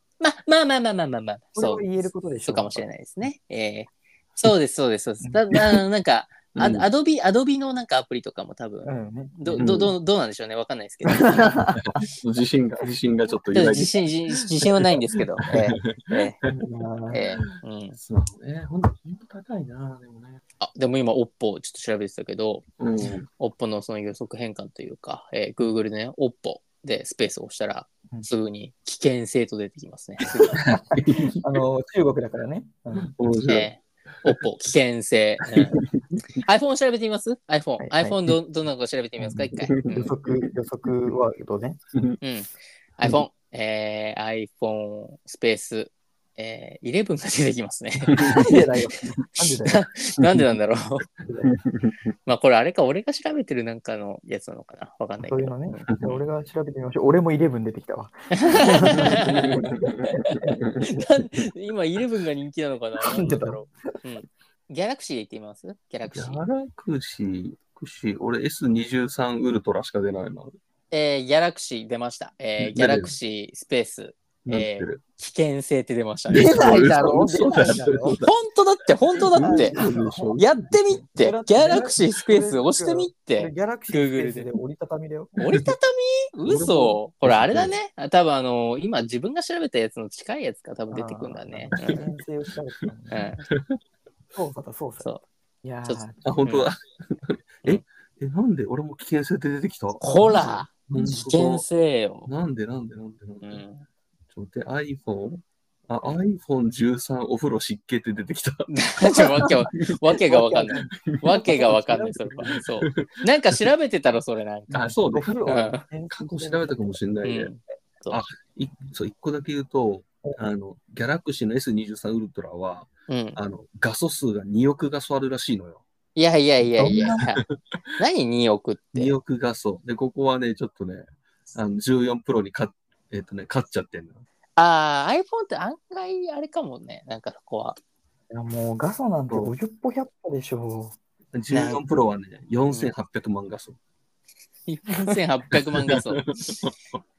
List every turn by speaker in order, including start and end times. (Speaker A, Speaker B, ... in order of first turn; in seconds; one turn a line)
Speaker A: 0.2-1.9
Speaker B: 1.6-2.9
Speaker A: 2.4-11.6
Speaker C: 6.5-6.9
Speaker B: 8.8-9.8
Speaker C: 9.6-9.9
Speaker B: 11.1-11.8
Speaker C: 11.8-14.0
Speaker A: 13.5-16.4
Speaker C: 15.5-16.5
Speaker B: 16.4-17.2
Speaker A: 17.1-18.0
Speaker C: 18.0-20.4
Speaker A: 20.6-22.6
Speaker C: 22.8-23.3
Speaker A: 23.4-30.6
Speaker C: 30.5-31.4
Speaker B: 31.3-33.1
Speaker C: 33.0-33.7
Speaker A: 33.5-35.8
Speaker C: 35.5-36.2
Speaker A: 36.4-40.1
Speaker B: 37.8-38.2
Speaker B: 39.2-41.8
Speaker C: 39.6-40.5
Speaker C: 41.9-42.2
Speaker A: 42.2-48.4
Speaker C: 48.1-49.2
Speaker B: 48.2-49.8
Speaker A: 49.7-51.1
Speaker B: 51.2-51.5
Speaker C: 51.4-52.0
Speaker A: 52.3-56.1
Speaker B: 55.2-59.7
Speaker A: 58.4-59.6
Speaker C: 58.9-61.1
Speaker B: 60.3-60.6
Speaker A: 60.8-66.4
Speaker B: 63.0-63.7
Speaker C: 66.1-70.5
Speaker A: 70.9-77.7
Speaker C: 72.6-73.1
Speaker C: 74.5-75.0
Speaker C: 76.3-78.4
Speaker B: 76.3-78.2
Speaker A: 78.2-79.8
Speaker B: 79.2-85.3
Speaker C: 79.3-80.6
Speaker A: 80.4-84.5
Speaker A: 85.4-92.0
Speaker C: 85.4-85.7
Speaker C: 86.5-87.8
Speaker B: 90.9-93.3
Speaker A: 93.1-93.5
Speaker C: 93.5-93.8
Speaker B: 94.3-95.1
Speaker B: 95.6-96.5
Speaker A: 95.8-96.7
Speaker C: 96.2-101.7
Speaker A: 100.0-102.3
Speaker B: 100.2-100.5
Speaker C: 102.3-103.6
Speaker A: 103.4-103.9
Speaker C: 104.3-110.0
Speaker A: 108.7-115.8
Speaker B: 110.2-112.6
Speaker C: 110.7-111.7
Speaker C: 112.6-113.2
Speaker C: 114.7-117.5
Speaker B: 115.1-117.0
Speaker A: 117.2-118.2
Speaker C: 118.1-125.8
Speaker A: 123.1-123.4
Speaker A: 126.2-127.4
Speaker B: 126.7-127.3
Speaker A: 128.0-129.2
Speaker C: 128.9-134.2
Speaker A: 134.6-137.8
Speaker B: 138.3-140.9
Speaker C: 141.3-143.8
Speaker A: 141.5-141.8
Speaker A: 144.7-146.6
Speaker C: 145.5-147.0